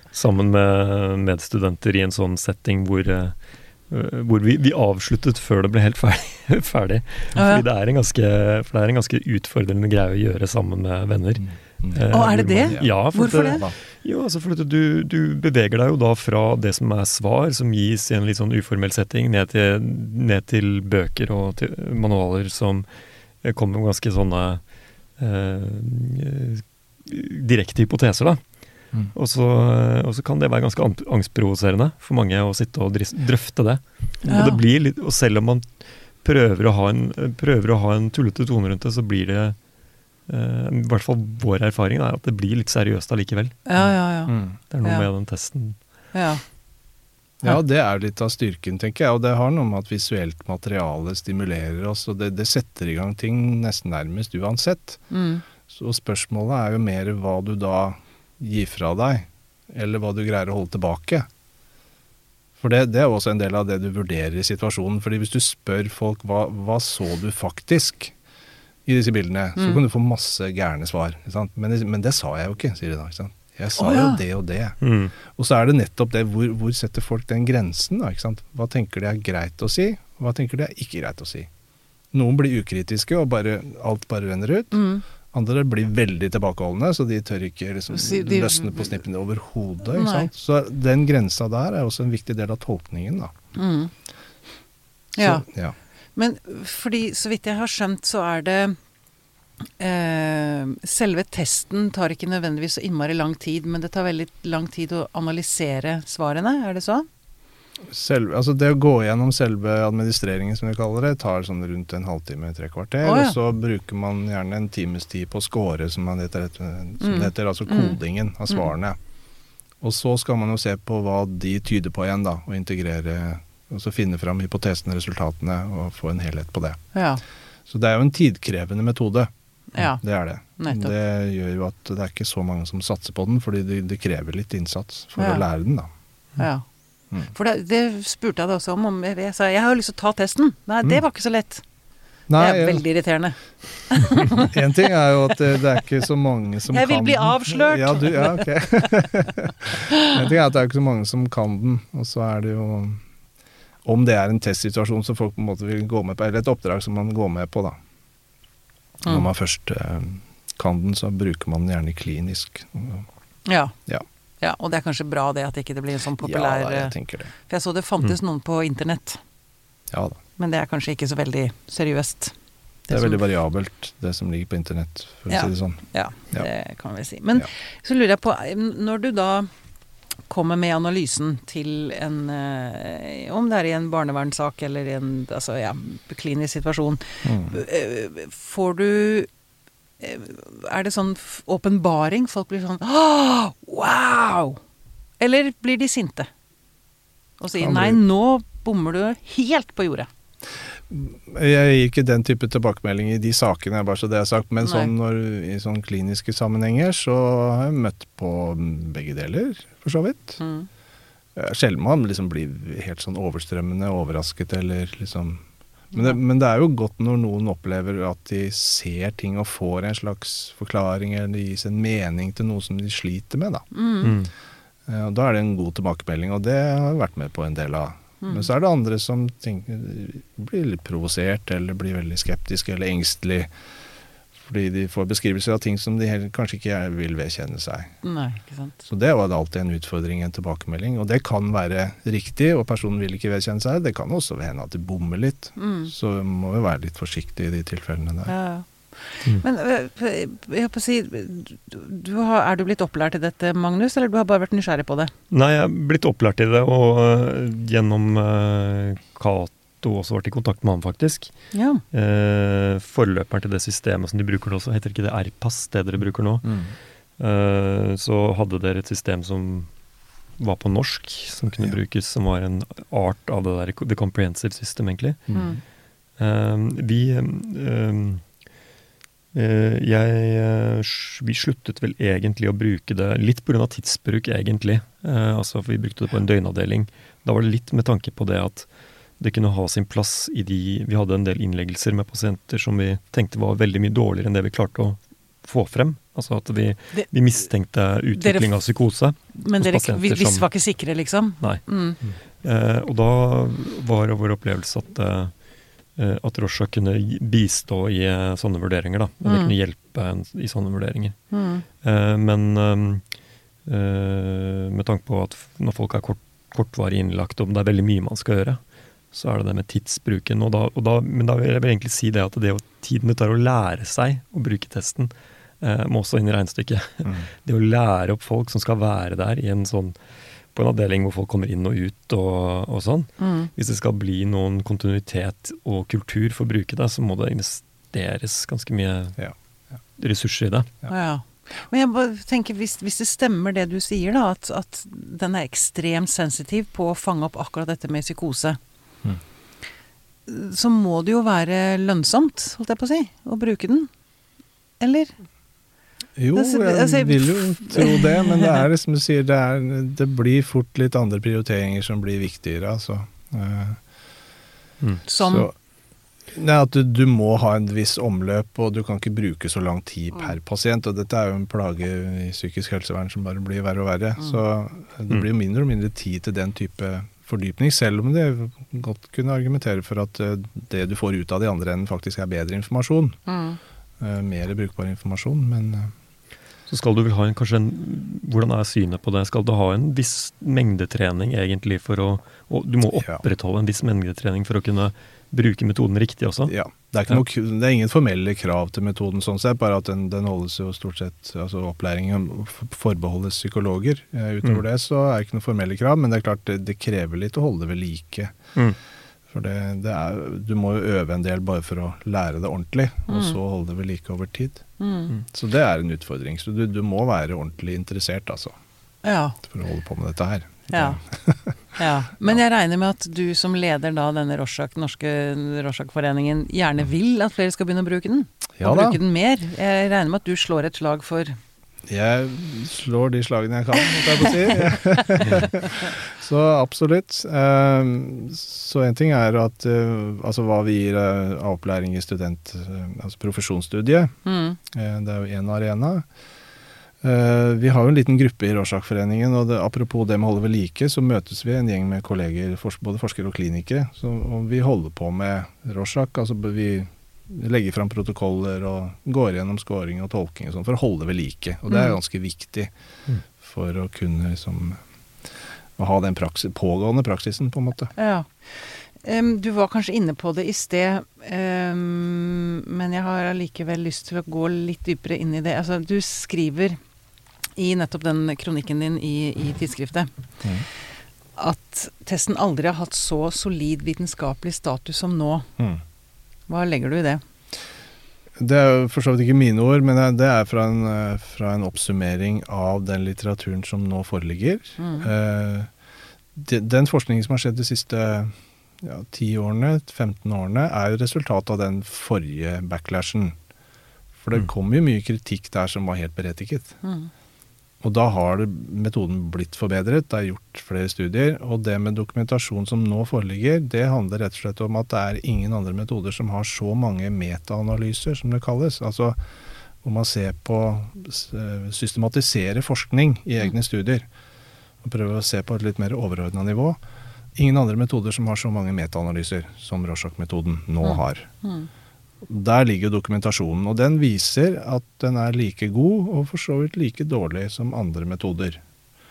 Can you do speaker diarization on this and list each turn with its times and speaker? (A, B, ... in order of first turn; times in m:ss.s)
0:00.1-0:22.9 A
0:07.4-0:07.6 B
0:11.4-0:13.7 C
0:12.1-0:13.6 B
0:23.4-0:24.6 A
0:25.2-0:28.4 A
0:29.1-0:39.6 A
0:34.2-0:34.6 B
0:40.3-0:43.8 A
0:43.6-0:45.0 B
0:44.3-0:44.6 C
0:44.7-0:45.8 A
0:46.1-0:46.4 B
0:47.4-0:55.0 C
0:55.1-0:55.4 B
0:55.6-1:01.3 C
1:02.6-1:08.1 C
1:08.9-1:21.5 C
1:13.8-1:14.2 B
1:14.8-1:15.1 A
1:22.1-1:33.3 C
1:24.7-1:25.0 B
1:27.9-1:28.9 B
1:29.9-1:30.3 B
1:33.5-1:33.9 B
1:35.2-1:35.4 B
1:35.2-1:35.8 C
1:36.2-1:38.8 B
1:39.8-1:47.1 B
1:47.9-1:59.0 C
1:53.0-1:53.4 B
1:57.0-1:58.0 B
1:59.8-2:06.8 C
2:06.9-2:07.2 B
2:07.7-2:15.9 C
2:09.7-2:10.0 B
2:10.6-2:10.9 B
2:15.2-2:15.4 B
2:16.4-2:16.6 B
2:17.3-2:21.6 B
2:22.3-2:22.8 C
2:22.4-2:24.5 B
2:24.3-2:33.0 C
2:26.7-2:28.9 B
2:33.8-2:37.8 C
2:39.0-2:43.1 C
2:43.4-2:43.8 B
2:44.4-2:46.9 B
2:46.2-2:47.3 C
2:47.4-2:49.2 B
2:49.9-2:50.2 C
2:50.4-2:52.3 B
2:52.9-2:53.2 B
2:52.9-2:56.5 C
2:55.3-2:59.5 B
3:00.3-3:09.3 B
3:07.2-3:07.6 C
3:10.0-3:14.6 B
3:15.2-3:16.3 B
3:17.4-3:20.1 B
3:17.6-3:18.0 C
3:20.7-3:30.4 C
3:24.6-3:24.9 B
3:30.4-3:30.7 B
3:31.4-3:43.6 C
3:35.9-3:36.2 B
3:43.7-3:44.1 B
3:44.0-3:44.3 A
3:44.9-3:53.5 C
3:48.2-3:48.5 B
3:54.4-3:57.9 C
3:58.0-3:58.8 B
3:58.8-4:08.3 C
4:05.6-4:05.9 B
4:08.2-4:15.1 B
4:15.3-4:29.7 A
4:21.5-4:21.8 B
4:30.4-4:35.3 A
4:35.3-4:35.6 C
4:35.3-4:35.6 B
4:36.2-4:38.2 A
4:39.3-5:00.5 A
4:58.2-4:58.6 B
4:59.3-5:02.0 B
5:01.4-5:01.6 A
5:02.4-5:05.4 A
5:06.0-5:13.1 A
5:09.2-5:09.5 B
5:11.3-5:11.6 B
5:13.6-5:18.6 A
5:19.1-5:30.0 A
5:30.5-5:39.2 A
5:33.2-5:33.5 B
5:40.0-5:40.7 A
5:40.9-5:48.6 B
5:50.2-5:53.9 B
5:54.8-5:55.1 B
5:56.2-6:03.8 C
5:56.4-5:58.6 B
6:05.1-6:05.5 B
6:05.2-6:05.5 C
6:06.3-6:23.2 C
6:23.3-6:23.6 B
6:24.0-6:25.9 C
6:26.7-6:36.5 A
6:33.0-6:33.2 C
6:36.5-6:48.4 C
6:49.3-6:54.6 C
6:53.1-6:53.4 B
6:54.8-6:55.1 B
6:55.2-6:58.5 C
6:59.0-6:59.4 B
6:59.4-7:01.6 C
7:00.7-7:01.0 B
7:01.8-7:11.4 B
7:08.6-7:09.0 C
7:11.9-7:24.2 C
7:24.2-7:24.6 B
7:24.7-7:26.0 C
7:27.0-7:42.7 C
7:41.7-7:41.9 B
7:43.4-7:44.8 C
7:45.8-7:47.9 C
7:48.0-7:56.8 B
7:57.6-8:00.1 B
8:01.4-8:05.5 B
8:06.5-8:07.2 B
8:08.4-8:15.7 C
8:14.8-8:15.1 B
8:16.3-8:23.4 C
8:24.2-8:26.7 C
8:26.8-8:27.1 B
8:27.8-8:39.2 C
8:39.8-8:44.1 C
8:44.8-8:46.8 C
8:47.4-8:51.3 C
8:50.8-8:51.7 B
8:52.2-8:58.6 C